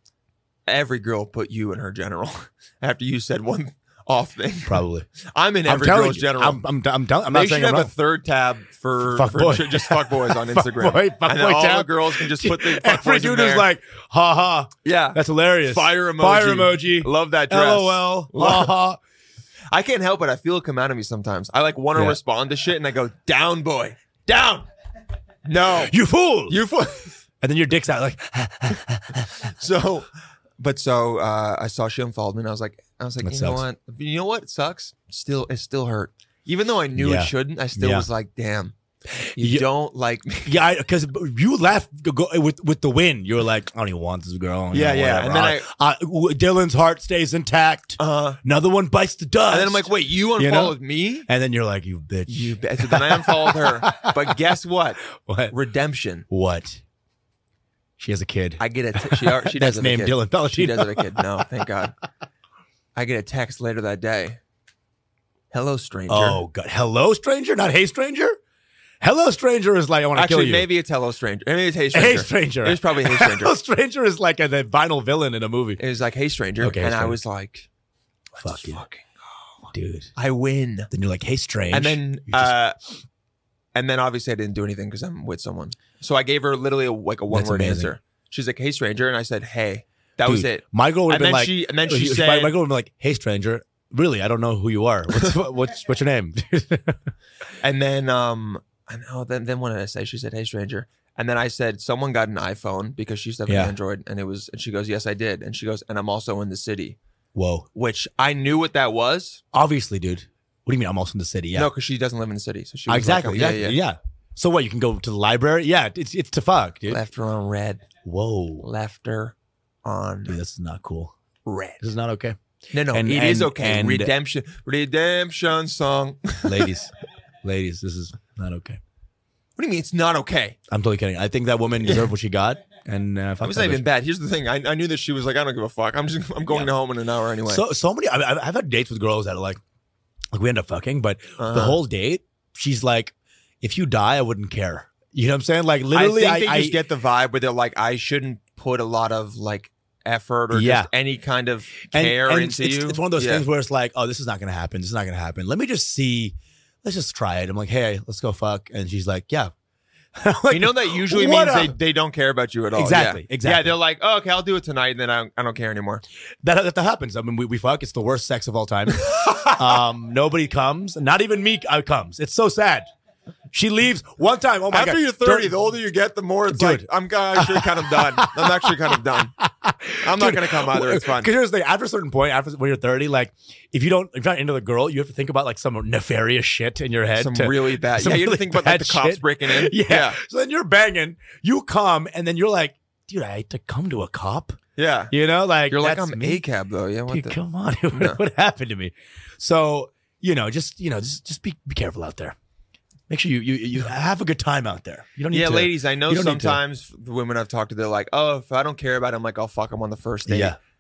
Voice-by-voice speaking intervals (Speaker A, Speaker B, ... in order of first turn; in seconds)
Speaker A: 0.7-6.6, 7.3-13.7, 14.8-18.8, 19.7-24.7, 25.4-25.9, 26.5-27.2, 29.4-38.8, 39.4-40.6, 44.7-45.7, 48.0-48.4, 49.5-51.3, 52.3-56.3, 58.6-61.9, 62.9-64.4, 65.5-66.4, 70.2-73.5, 75.8-77.7, 78.3-79.1, 80.2-80.9, 81.7-82.8, 83.8-92.6, 97.6-107.0, 107.7-109.4, 111.5-113.8, 116.9-117.9, 118.6-120.4, 121.5-121.8, 122.7-126.7, 129.6-130.6, 131.8-132.1, 133.4-137.7, 141.4-141.8, 145.9-153.4, 160.5-166.0, 174.7-179.4, 180.0-181.3, 187.2-190.2, 194.8-195.2, 195.7-197.4, 197.9-198.2, 205.3-210.6
Speaker B: 4.7-5.1, 5.7-7.9, 9.1-19.0, 25.7-26.6, 27.4-29.5, 33.2-33.6, 37.0-38.1, 39.1-39.7, 40.4-54.5, 55.2-55.5, 56.3-56.8, 58.0-61.4, 66.1-68.4, 69.0-70.7, 71.9-75.8, 76.6-77.2, 78.4-78.8, 79.7-80.1, 80.9-82.6, 87.3-87.9, 90.2-97.1, 103.5-103.8, 107.3-107.7, 109.5-111.7, 112.9-117.0, 118.0-118.7, 120.3-121.1, 121.8-124.2, 126.4-126.9, 127.4-128.8, 130.7-133.8, 137.4-139.6, 140.3-146.8, 150.5-150.9, 151.9-159.5, 160.2-161.8, 162.7-163.8, 166.4-172.9, 173.5-175.6, 176.5-194.6, 195.1-196.4, 197.1-202.3, 203.1-206.6, 210.3-210.6